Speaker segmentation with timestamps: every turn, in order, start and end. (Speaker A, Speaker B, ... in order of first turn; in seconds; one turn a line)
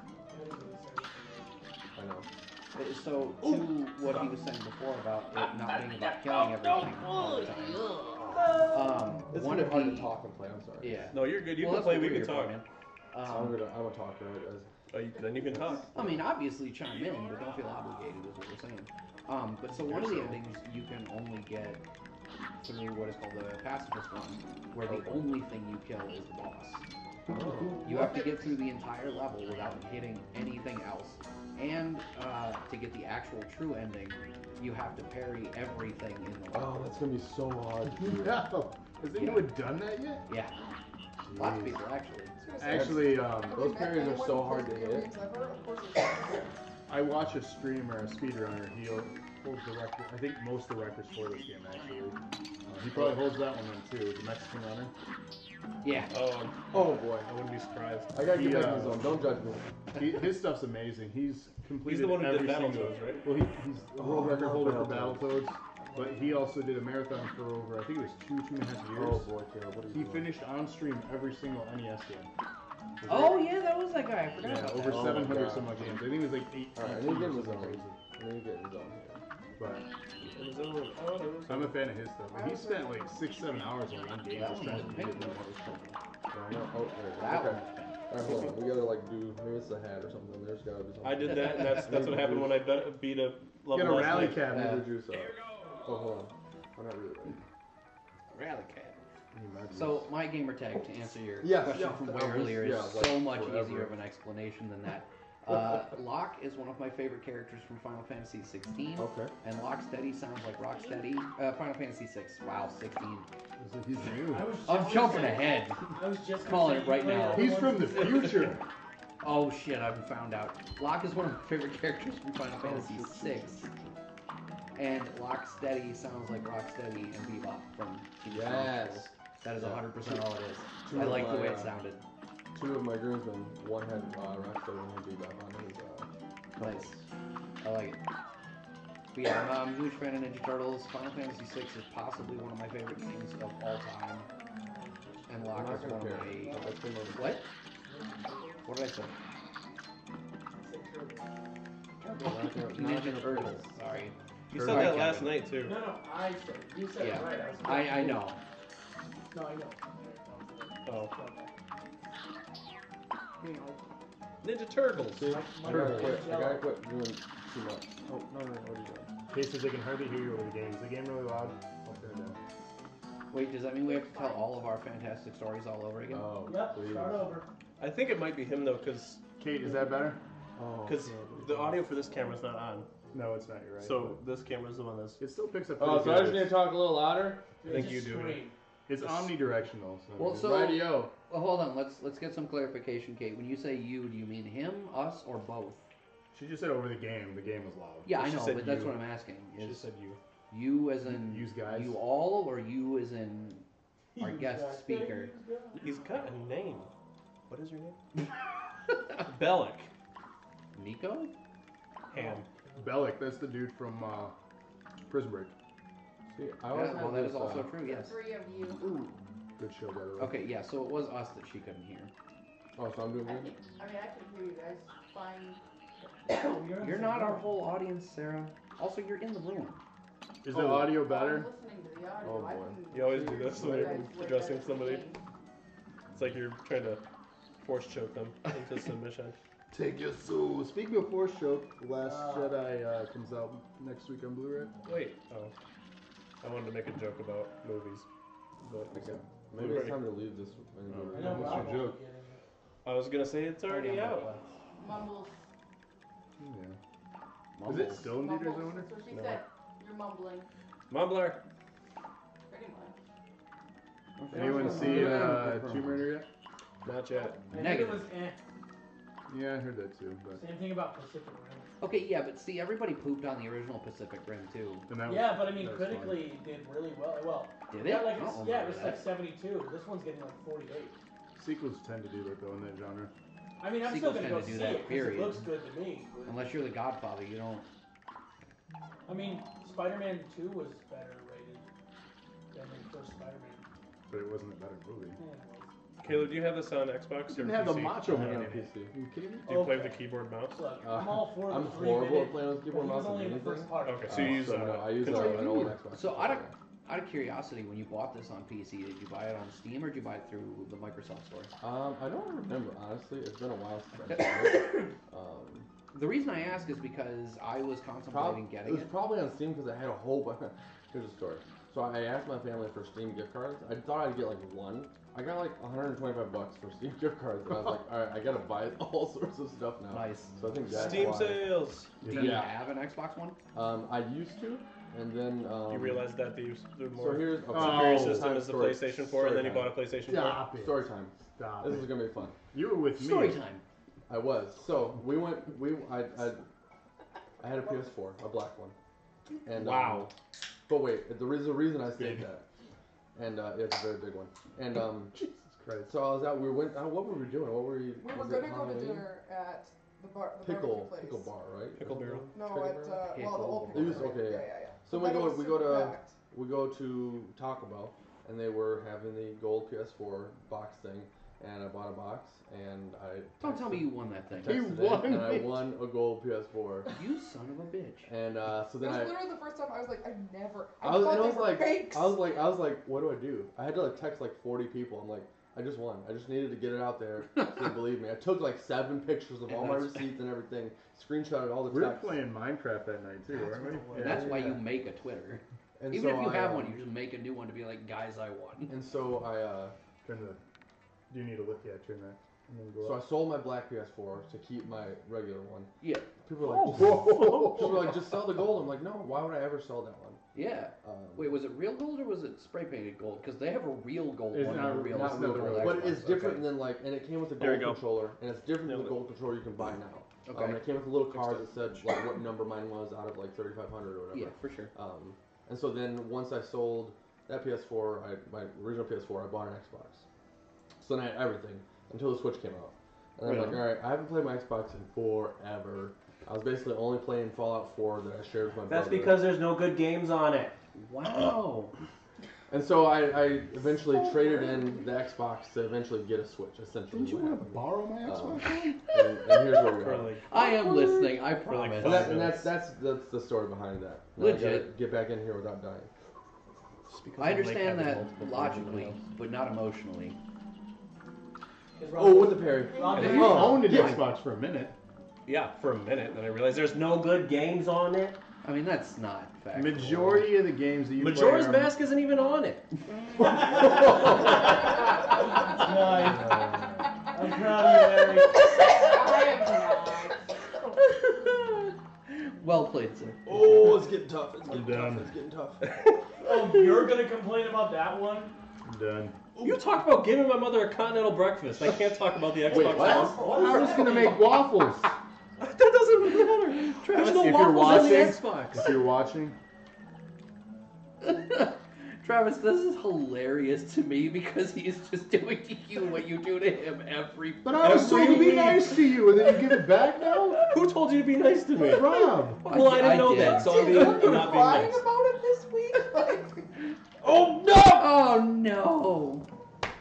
Speaker A: 0.3-1.6
Speaker B: 1.9-2.3
Speaker C: 2.7-7.8
Speaker B: 3.4-4.2
Speaker B: 5.4-8.5
Speaker C: 8.7-10.1
Speaker B: 9.3-11.1
Speaker C: 10.8-13.6
Speaker D: 11.1-12.6
Speaker B: 13.2-14.7
Speaker D: 14.9-15.9
Speaker B: 15.4-16.2
Speaker C: 15.9-21.8
Speaker D: 19.9-20.4
Speaker C: 22.6-26.8
Speaker B: 24.9-25.2
Speaker B: 27.3-28.1
Speaker C: 27.8-36.8
Speaker B: 36.5-38.4
Speaker E: 38.0-40.2
Speaker C: 39.1-39.6
Speaker C: 40.3-40.6
Speaker E: 41.2-41.8
Speaker C: 41.3-42.3
Speaker F: 42.4-46.5
Speaker E: 42.6-43.6
Speaker B: 42.6-45.1
Speaker E: 46.9-52.2
Speaker E: 52.7-54.9
Speaker B: 52.9-53.2
Speaker C: 55.8-56.1
Speaker D: 56.1-58.1
Speaker B: 56.7-57.3
Speaker B: 58.1-59.6
Speaker E: 58.2-59.1
Speaker E: 59.9-69.3
Speaker D: 61.8-63.2
Speaker B: 64.0-65.3
Speaker A: 65.8-66.5
Speaker B: 68.9-70.3
Speaker E: 69.9-72.3
Speaker E: 73.0-73.5
Speaker C: 73.0-75.3
Speaker E: 74.4-78.0
Speaker B: 74.8-76.2
Speaker B: 76.7-79.2
Speaker E: 79.6-79.8
Speaker D: 80.2-81.8
Speaker E: 81.5-85.5
Speaker F: 82.3-83.2
Speaker C: 84.3-86.0
Speaker B: 86.3-92.6
Speaker C: 87.2-88.4
Speaker D: 91.0-94.5
Speaker E: 93.7-94.9
Speaker B: 94.3-97.4
Speaker C: 98.3-99.0
Speaker E: 99.3-100.1
Speaker C: 99.7-113.3
Speaker B: 101.4-103.9
Speaker B: 109.0-109.3
Speaker G: 110.7-111.0
Speaker E: 113.6-114.6
Speaker A: 114.2-118.4
Speaker C: 114.6-115.8
Speaker C: 116.4-118.5
Speaker E: 117.3-118.6
Speaker C: 119.2-123.7
Speaker B: 122.6-123.7
Speaker C: 124.8-132.0
Speaker B: 128.3-130.2
Speaker B: 130.8-131.7
Speaker B: 132.5-137.0
Speaker C: 136.6-137.0
Speaker C: 137.6-138.0
Speaker C: 139.1-144.3
Speaker A: 144.7-145.6
Speaker C: 145.3-147.5
Speaker B: 145.5-147.3
Speaker A: 147.8-148.7
Speaker C: 148.6-149.1
Speaker A: 150.6-151.3
Speaker B: 152.0-153.7
Speaker C: 152.2-155.4
Speaker D: 154.5-155.8
Speaker E: 154.5-155.1
Speaker A: 155.6-158.3
Speaker C: 157.0-158.4
Speaker A: 159.3-161.5
Speaker D: 160.8-161.1
Speaker D: 164.4-165.5
Speaker B: 165.2-169.1
Speaker A: 165.3-166.7
Speaker E: 165.7-166.1
Speaker E: 169.3-172.4
Speaker C: 173.3-176.3
Speaker G: 173.8-174.7
Speaker B: 176.1-177.2
Speaker A: 176.4-177.5
Speaker D: 177.8-179.2
Speaker E: 179.4-180.2
Speaker B: 180.6-181.6
Speaker D: 180.8-182.9
Speaker E: 183.1-184.2
Speaker D: 183.8-185.2
Speaker E: 185.2-186.6
Speaker B: 185.8-187.5
Speaker A: 187.6-188.6
Speaker D: 187.7-188.4
Speaker E: 188.9-190.7
Speaker D: 189.0-189.3
Speaker C: 190.2-195.8
Speaker B: 190.4-191.1
Speaker E: 196.3-198.3
Speaker C: 198.0-199.8
Speaker D: 198.2-199.0
Speaker D: 199.6-200.2
Speaker C: 200.5-203.6
Speaker E: 201.0-202.0
Speaker A: 204.1-205.9
Speaker C: 204.2-205.3
Speaker D: 205.8-206.9
Speaker D: 207.5-208.0
Speaker D: 209.2-209.9
Speaker C: 210.7-211.3
Speaker D: 212.1-212.5
Speaker A: 212.1-213.2
Speaker E: 212.8-214.3
Speaker E: 215.1-215.5
Speaker B: 216.3-217.7
Speaker C: 216.7-218.2
Speaker G: 217.8-218.8
Speaker C: 218.8-219.2
Speaker E: 219.6-220.4
Speaker C: 220.2-222.1
Speaker B: 222.8-223.5
Speaker G: 223.2-225.6
Speaker A: 226.2-227.5
Speaker C: 226.8-229.8
Speaker E: 230.4-231.5
Speaker B: 230.5-231.0
Speaker G: 230.8-235.2
Speaker B: 232.2-232.8
Speaker D: 232.9-235.1
Speaker B: 233.6-234.0
Speaker D: 236.1-237.0
Speaker D: 237.6-239.4
Speaker E: 239.7-244.7
Speaker A: 242.0-242.7
Speaker D: 244.8-245.5
Speaker D: 246.4-248.1
Speaker D: 248.6-250.0
Speaker B: 248.9-251.7
Speaker E: 250.9-252.0
Speaker A: 251.1-252.4
Speaker D: 252.8-254.3
Speaker C: 253.7-254.4
Speaker G: 254.8-255.4
Speaker E: 256.4-256.8
Speaker C: 257.6-258.1
Speaker E: 257.6-258.9
Speaker G: 258.0-260.4
Speaker D: 260.9-261.4
Speaker G: 262.5-262.9
Speaker C: 264.2-265.9
Speaker E: 264.3-266.3
Speaker B: 264.3-265.8
Speaker D: 266.8-267.4
Speaker A: 267.4-268.4
Speaker C: 267.5-268.1
Speaker E: 269.3-270.4
Speaker A: 270.3-271.7
Speaker C: 271.8-274.9
Speaker E: 274.9-276.3
Speaker A: 275.0-281.0
Speaker C: 277.7-279.1
Speaker E: 281.4-283.1
Speaker A: 283.6-286.5
Speaker C: 283.8-285.4
Speaker C: 286.2-287.7
Speaker A: 289.1-291.7
Speaker A: 292.5-293.6
Speaker E: 294.1-295.2
Speaker A: 295.2-295.7
Speaker D: 296.0-298.2
Speaker E: 297.3-299.6
Speaker B: 298.1-298.9
Speaker D: 299.5-300.6
Speaker A: 299.5-304.3
Speaker B: 300.8-306.5
Speaker D: 303.8-305.5
Speaker E: 304.1-305.8
Speaker C: 305.9-311.5
Speaker B: 311.6-315.7
Speaker C: 314.1-314.9
Speaker C: 315.9-318.9
Speaker B: 318.1-331.6
Speaker C: 329.9-330.3
Speaker D: 330.7-331.9
Speaker E: 332.0-332.4
Speaker C: 332.1-333.4
Speaker B: 332.1-332.5
Speaker B: 333.5-336.1
Speaker D: 335.7-340.4
Speaker B: 336.9-339.8
Speaker E: 337.5-338.3
Speaker E: 340.1-343.4
Speaker B: 340.6-342.4
Speaker C: 342.9-343.6
Speaker B: 344.1-346.4
Speaker B: 347.4-348.8
Speaker B: 349.4-350.1
Speaker D: 349.5-350.1
Speaker B: 350.7-352.4
Speaker E: 351.9-352.2
Speaker B: 353.1-355.2
Speaker E: 355.1-356.0
Speaker B: 355.9-359.1
Speaker F: 358.0-361.3
Speaker B: 360.4-363.1
Speaker D: 361.8-362.3
Speaker F: 362.3-366.1
Speaker C: 363.1-364.2
Speaker B: 363.7-376.9
Speaker C: 373.4-374.6
Speaker E: 374.4-375.7
Speaker C: 376.9-378.1
Speaker B: 378.1-379.3
Speaker F: 378.8-382.2
Speaker B: 380.8-392.2
Speaker C: 389.5-390.1
Speaker E: 391.7-394.2
Speaker A: 393.3-394.1
Speaker C: 393.9-398.8
Speaker B: 393.9-394.6
Speaker B: 395.8-396.8
Speaker B: 398.7-399.7
Speaker E: 400.0-400.4
Speaker E: 401.1-403.0
Speaker B: 402.8-405.7
Speaker C: 405.8-408.0
Speaker B: 406.2-410.2
Speaker E: 406.7-407.7
Speaker C: 410.3-416.5
Speaker B: 410.8-411.4
Speaker E: 414.3-416.0
Speaker B: 414.9-430.0
Speaker D: 417.4-418.0
Speaker D: 418.6-419.0
Speaker C: 420.2-420.7
Speaker D: 421.1-421.8
Speaker C: 424.1-424.7
Speaker B: 430.8-439.2
Speaker C: 433.2-433.7
Speaker D: 438.7-440.5
Speaker C: 440.7-441.7
Speaker B: 442.5-450.1
Speaker F: 443.6-444.9
Speaker E: 446.9-448.8
Speaker D: 449.8-450.3
Speaker C: 450.3-452.3
Speaker D: 451.4-452.5
Speaker B: 451.8-455.9
Speaker C: 454.2-454.7
Speaker D: 456.9-458.8
Speaker C: 457.2-460.1
Speaker E: 458.0-458.9
Speaker A: 461.8-463.6
Speaker B: 461.9-464.1
Speaker G: 462.7-463.2
Speaker C: 462.9-464.0
Speaker E: 463.1-464.7
Speaker D: 465.2-468.2
Speaker C: 468.4-470.3
Speaker E: 469.5-471.7
Speaker D: 470.9-474.5
Speaker A: 473.2-474.3
Speaker A: 475.4-478.6
Speaker G: 478.7-480.3
Speaker C: 480.8-483.2
Speaker B: 483.2-485.6
Speaker E: 484.5-485.1
Speaker A: 486.2-488.4
Speaker E: 488.6-489.2
Speaker D: 489.4-494.1
Speaker A: 492.5-494.2
Speaker B: 492.5-493.2
Speaker C: 492.6-493.8
Speaker E: 493.2-494.9
Speaker D: 495.4-498.5
Speaker C: 496.6-498.8
Speaker E: 497.0-499.4
Speaker C: 501.0-510.4
Speaker E: 507.4-510.5
Speaker D: 507.6-508.8
Speaker D: 510.5-514.8
Speaker E: 511.7-512.5
Speaker C: 512.4-514.3
Speaker F: 512.8-516.5
Speaker D: 517.0-517.9
Speaker C: 517.6-519.2